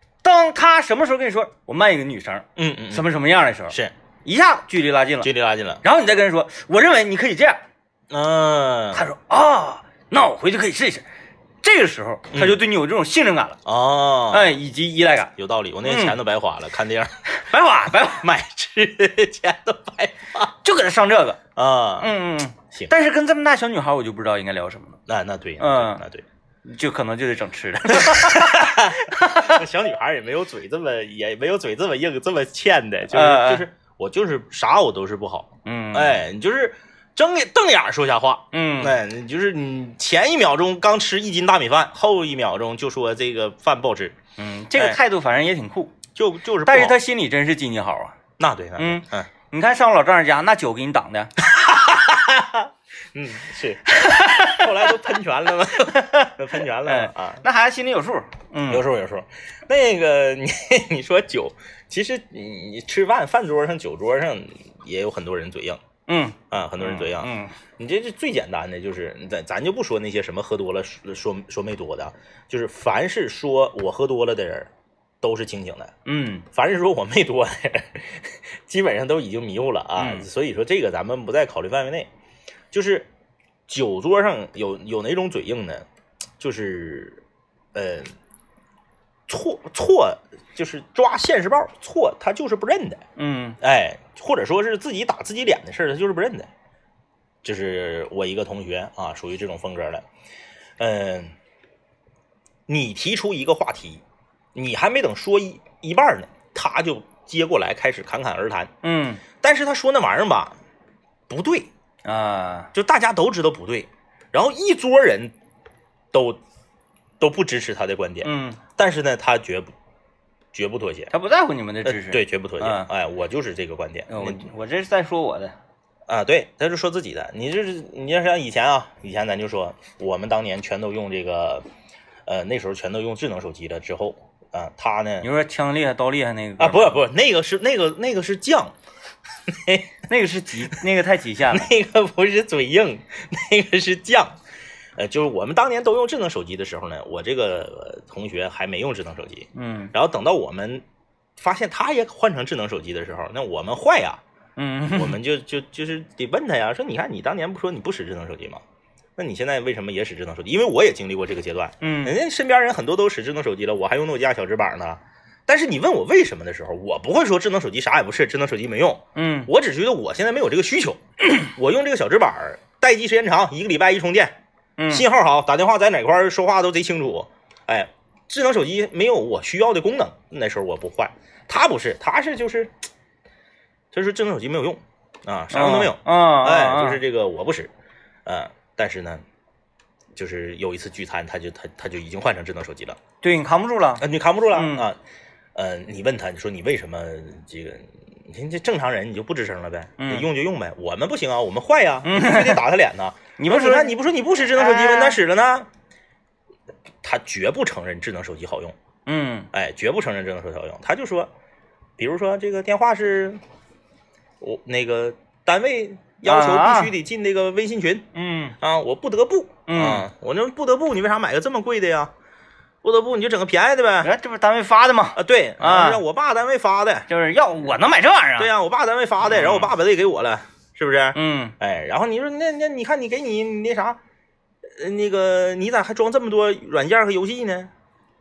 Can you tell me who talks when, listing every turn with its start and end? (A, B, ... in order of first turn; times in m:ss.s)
0:00.2-0:05.3 A
0:02.6-0:03.1 B
0:05.2-0:05.8 B
0:05.8-0:07.6 A
0:08.1-0:09.0 B
0:08.9-0:11.0 A
0:11.6-0:13.6 A
0:12.3-0:12.6 B
0:13.6-0:14.5 B
0:14.3-0:16.2 A
0:15.4-0:17.3 B
0:17.3-0:18.4 A
0:18.0-0:20.5 B
0:20.6-0:21.4 A
0:21.6-0:22.1 B
0:22.0-0:25.0 A
0:25.1-0:26.2 B
0:25.6-0:26.0 A
0:26.6-0:29.6 A
0:27.9-0:44.2 B
0:33.1-0:33.6 A
0:35.6-0:36.2 A
0:38.5-0:39.0 A
0:44.4-0:46.0 A
0:46.2-0:47.0 B
0:46.6-0:48.2 A
0:48.4-0:49.3 B
0:48.8-0:51.3 A
0:51.4-0:57.4 B
0:53.9-0:55.0 A
0:55.9-0:58.8 A
0:58.7-1:05.8 B
1:06.1-1:07.5 A
1:06.5-1:14.7 B
1:15.2-1:15.9 B
1:16.0-1:16.4 A
1:16.5-1:22.1 B
1:20.0-1:20.3 A
1:22.7-1:23.1 B
1:23.7-1:25.8 B
1:26.4-1:27.2 B
1:27.7-1:28.1 B
1:29.3-1:33.0 B
1:33.2-1:33.6 A
1:33.6-1:36.5 B
1:37.4-1:40.0 B
1:40.8-1:41.3 B
1:42.7-1:44.0 B
1:44.5-1:48.7 B
1:48.8-1:49.2 A
1:49.4-1:50.5 B
1:51.3-1:51.7 B
1:52.0-1:52.7 A
1:52.7-1:55.3 B
1:56.1-1:56.4 B
1:57.2-1:59.7 B
1:58.2-1:58.6 A
2:00.5-2:01.1 B
2:01.1-2:02.9 A
2:01.8-2:04.5 B
2:04.1-2:05.6 A
2:06.1-2:11.6 B
2:12.2-2:15.3 B
2:15.2-2:17.0 A
2:16.6-2:18.7 B
2:19.5-2:19.9 B
2:20.1-2:21.7 A
2:21.5-2:24.4 B
2:25.0-2:30.8 B
2:29.5-2:29.9 A
2:31.4-2:34.2 B
2:34.6-2:35.2 A
2:34.9-2:38.6 B
2:39.2-2:54.4 B
2:41.8-2:42.2 A
2:49.1-2:49.5 A
2:54.8-2:55.0 A
2:54.9-3:02.7 B
3:03.9-3:07.7 B
3:05.5-3:07.0 A
3:08.2-3:09.2 B
3:10.1-3:13.0 B
3:13.2-3:14.8 A
3:14.0-3:15.0 B
3:15.5-3:25.7 B
3:20.0-3:20.3 A
3:22.0-3:22.6 A
3:23.4-3:24.0 A
3:24.5-3:25.2 A
3:27.0-3:28.7 B
3:29.0-3:29.5 A
3:29.5-3:31.3 B
3:32.0-3:33.4 B
3:34.4-3:38.1 B
3:36.2-3:36.9 A
3:38.1-3:38.6 A
3:38.6-3:42.1 B
3:39.7-3:40.1 A
3:42.8-3:44.1 B
3:44.0-3:46.0 A
3:45.1-3:47.0 B
3:47.1-3:48.5 A
3:48.4-3:54.0 B
3:49.2-3:49.7 A
3:51.1-3:51.5 A
3:54.7-3:57.7 B